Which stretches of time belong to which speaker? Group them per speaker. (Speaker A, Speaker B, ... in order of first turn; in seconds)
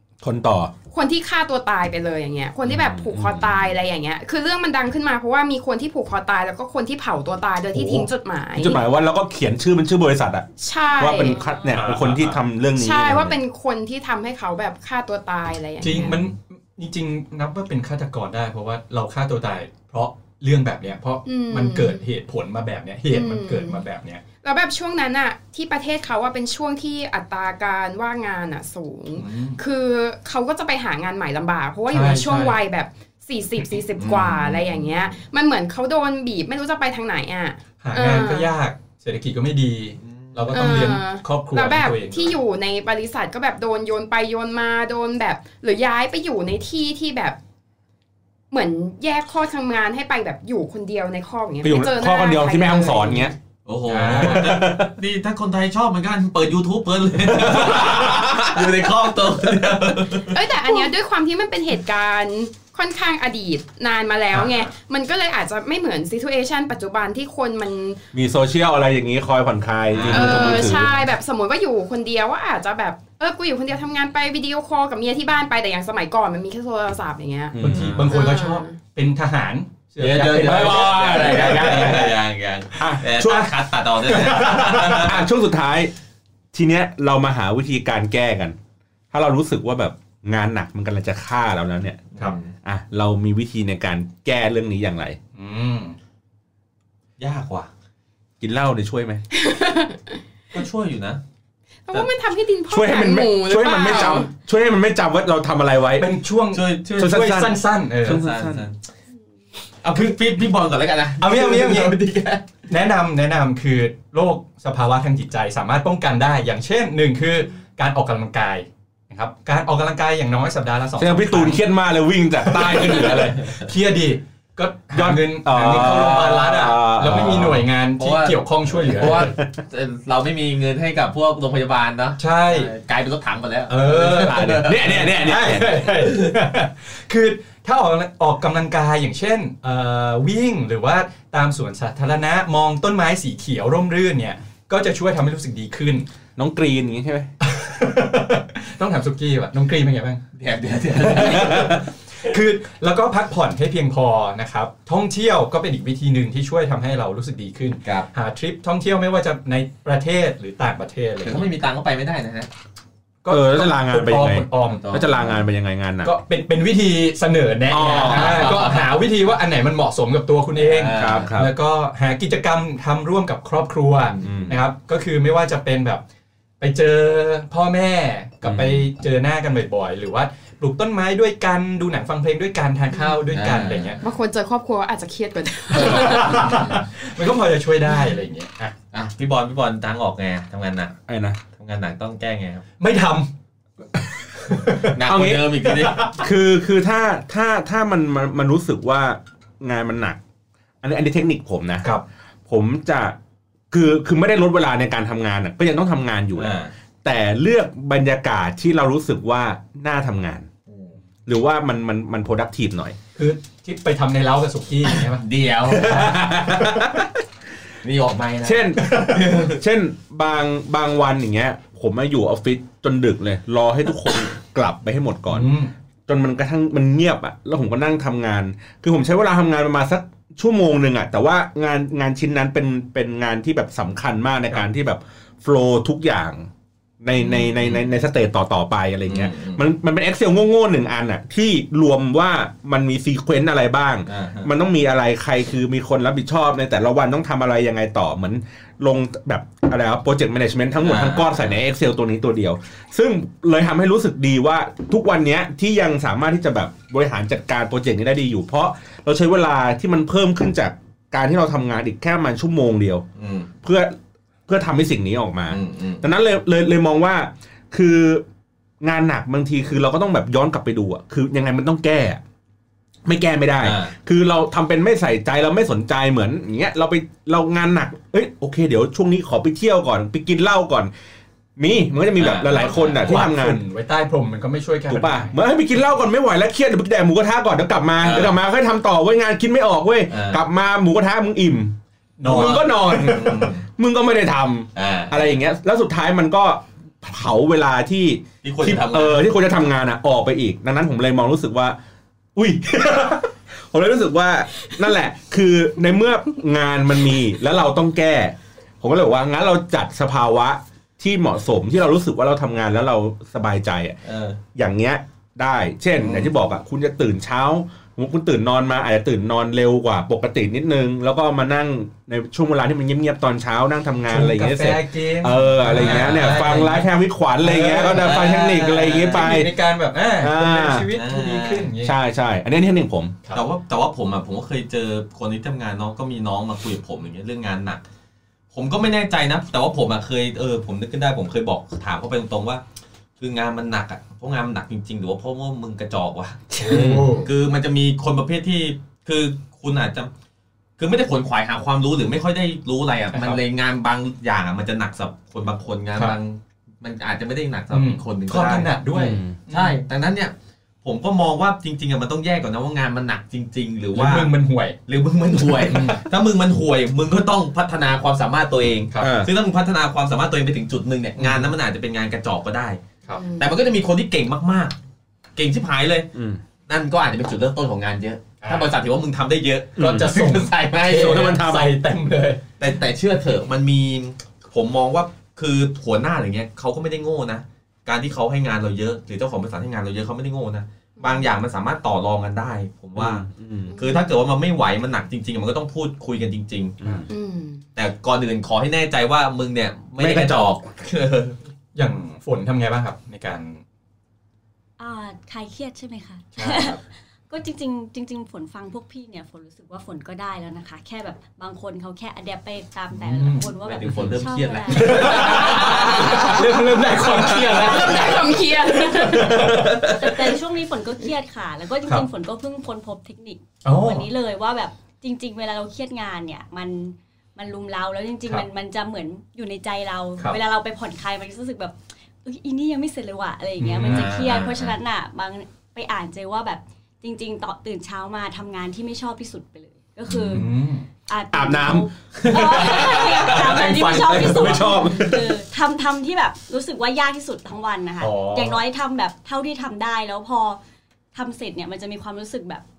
Speaker A: 0.2-0.7, 2.6-3.6, 7.7-13.4, 51.6-53.3, 54.2-54.9, 57.3-58.7, 68.1-70.9, 77.5-78.1, 80.3-82.2, 82.8-83.5, 84.7-85.9, 86.5-88.5, 89.1-92.0, 92.6-95.2, 98.4-99.2, 102.7-106.1, 107.0-108.7, 121.0-123.5, 124.9-127.6, 129.0-129.4, 134.3-135.8, 146.4-147.3, 163.3-166.1, 167.7-168.7, 170.9-171.5, 174.2-174.6, 178.4-178.8, 191.1-191.4, 195.0-195.6, 196.1-200.2, 200.8-201.9, 202.5-203.2, 203.7-206.5, 207.0-210.5, 211.2-213.0, 215.8-217.1, 218.4-225.5, 226.1-236.5, 237.0-263.1, 263.6-263.9, 264.5-268.2, 268.8-272.2, 273.0-280.9, 281.6-283.6, 284.9-301.8, 302.4-314.0, 314.5-329.5, 330.2-330.9, 331.8-333.2, 346.7-347.1, 358.9-359.4, 369.0-369.3, 376.1-376.4, 379.8-380.1, 380.9-381.6, 392.9-393.7, 396.8-397.1, 400.0-400.5, 441.3-445.4
Speaker B: 0.9-8.8, 10.6-11.4, 12.7-16.2, 21.2-22.0, 23.1-23.8, 24.4-38.5, 40.5-47.4, 48.5-53.3, 60.3-68.0, 70.1-77.5, 78.1-78.8, 99.3-100.2, 101.9-104.3, 184.0-186.8, 373.1-373.5, 391.0-391.3, 393.7-394.1, 397.1-397.6, 417.5-419.4, 444.8-445.1
Speaker C: 10.9-11.8, 404.8-418.6, 419.9-440.5, 441.1-450.6, 451.1-452.6
Speaker D: 11.7-12.4, 15.8-24.2, 29.2-29.6, 31.9-32.6, 37.8-42.4, 53.9-54.7, 77.6-82.1, 83.2-83.5, 84.0-85.0, 95.3-96.0, 106.0-108.2, 111.2-112.0, 112.7-121.6, 122.4-129.3, 132.2-132.7, 133.7-146.1, 147.4-150.2, 151.0-161.4, 163.2-164.8, 166.0-176.0, 176.6-184.0, 185.7-188.7, 192.8-193.3, 194.3-194.9, 195.8-196.2, 213.2-215.2, 215.8-216.9, 218.8-219.1, 225.3-225.7, 282.5-285.4, 292.2-293.4, 324.1-326.9, 327.4-331.9, 346.5-347.3, 353.1-353.4, 357.7-359.8, 363.9-364.8, 365.6-366.0, 371.2-371.5, 378.4-378.7, 379.8-382.4, 401.7-403.6, 406.3-406.8, 412.9-414.0, 414.7-420.3, 423.6-424.1, 433.6-434.1, 440.3-440.9, 442.3-444.7, 448.0-448.6
Speaker E: 34.0-35.2, 40.0-40.9, 53.6-60.4, 69.9-70.9, 77.7-78.1, 80.0-85.2, 92.1-92.5, 97.2-97.7, 100.5-101.2, 106.5-107.2, 108.0-108.8, 109.8-112.5, 127.1-127.4, 128.0-135.1, 136.0-136.3, 150.4-151.8, 161.2-162.5, 164.7-165.4, 167.9-168.9, 170.6-171.3, 174.2-174.4, 183.3-183.9, 185.7-186.8, 188.9-191.0, 191.6-192.6, 194.8-196.1, 206.3-206.7, 210.7-210.9, 215.0-216.4, 217.8-219.6, 237.2-237.8, 239.1-239.6, 244.1-244.5, 250.8-251.6, 263.2-263.5, 265.5-266.0, 273.6-273.9, 282.2-283.1, 288.0-288.4, 290.1-290.4, 292.3-293.6, 294.7-295.3, 298.4-299.3, 314.0-314.4, 316.0-316.3, 325.6-326.6, 327.9-329.3, 330.9-331.7, 333.3-337.8, 338.5-342.6, 343.2-350.1, 350.8-358.7, 359.5-364.3, 364.9-372.8, 373.4-374.7, 375.4-376.1, 376.7-381.6, 382.6-396.8, 397.8-401.4, 413.6-416.4, 433.8-434.8, 440.1-440.4